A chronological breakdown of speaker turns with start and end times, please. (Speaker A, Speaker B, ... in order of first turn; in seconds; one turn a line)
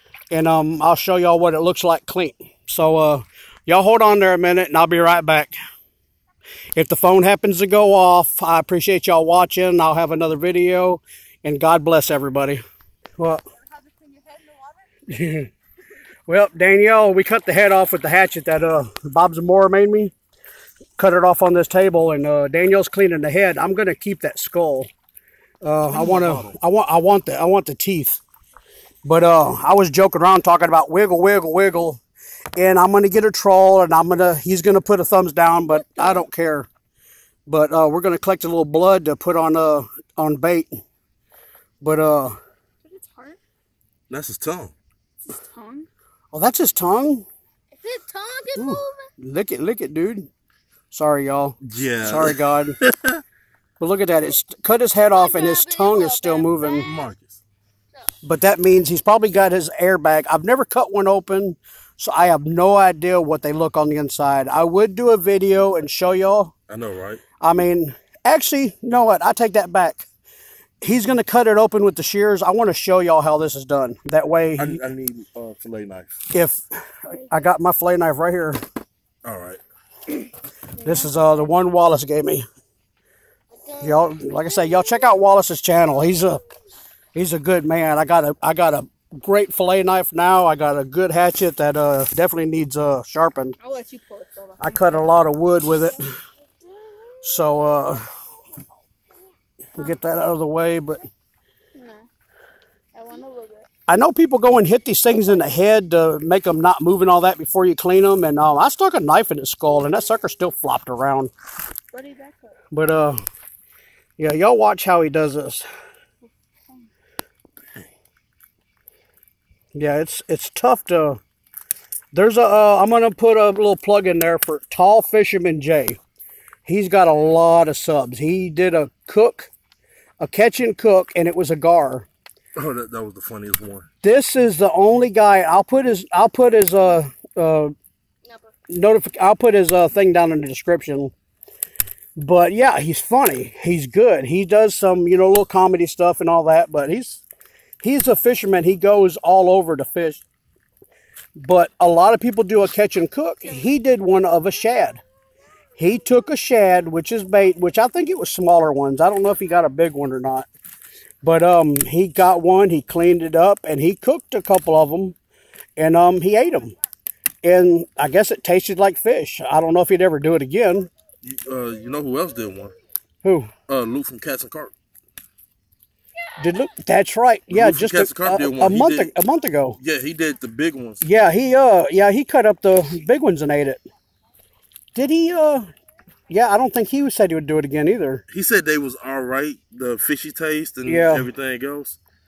Speaker A: 0.3-5.5
Speaker A: 6.7-12.6
Speaker B: 13.7-14.8
Speaker A: 15.1-15.5
Speaker A: 16.3-20.1
Speaker A: 21.0-24.9
Speaker A: 25.6-28.2
Speaker C: 25.9-26.5
Speaker A: 29.0-32.0
Speaker A: 32.5-36.7
Speaker A: 37.5-40.8
Speaker A: 41.8-42.4
Speaker B: 42.8-43.4
Speaker C: 44.1-44.7
Speaker B: 45.5-45.9
Speaker A: 46.3-47.2
Speaker B: 47.7-49.1
Speaker A: 48.5-50.3
Speaker A: 50.9-52.8
Speaker C: 51.6-53.2
Speaker A: 53.8-56.9
Speaker B: 55.0-57.0
Speaker C: 56.8-57.4
Speaker A: 58.2-66.5
Speaker C: 66.7-67.2
Speaker A: 67.4-70.0
Speaker A: 70.8-74.8
Speaker C: 74.6-76.2
Speaker A: 76.3-78.6
Speaker C: 79.2-79.6
Speaker A: 80.8-82.4
Speaker A: 83.8-86.4
Speaker A: 87.1-93.5
Speaker B: 93.6-95.0
Speaker A: 94.6-96.1
Speaker A: 97.2-98.1
Speaker A: 99.8-101.0
Speaker B: 101.7-102.1
Speaker B: 102.9-103.7
Speaker A: 103.9-111.3
Speaker B: 111.9-112.5
Speaker A: 112.7-113.2
Speaker A: 114.2-115.7
Speaker A: 119.7-121.2
Speaker A: 122.1-126.0
Speaker A: 126.7-129.5
Speaker A: 130.2-132.1
Speaker C: 132.5-133.9
Speaker A: 134.0-137.7
Speaker A: 138.7-141.1
Speaker A: 142.2-147.2
Speaker A: 147.8-150.2
Speaker A: 151.4-155.0
Speaker A: 155.8-160.5
Speaker A: 161.2-165.2
Speaker A: 165.8-166.7
Speaker A: 167.4-170.9
Speaker C: 171.2-172.7
Speaker A: 173.2-173.5
Speaker C: 173.7-174.7
Speaker A: 176.4-179.8
Speaker C: 177.5-179.1
Speaker C: 179.8-181.0
Speaker A: 181.0-183.8
Speaker A: 184.9-185.7
Speaker A: 186.3-188.2
Speaker C: 188.3-192.0
Speaker A: 190.8-191.3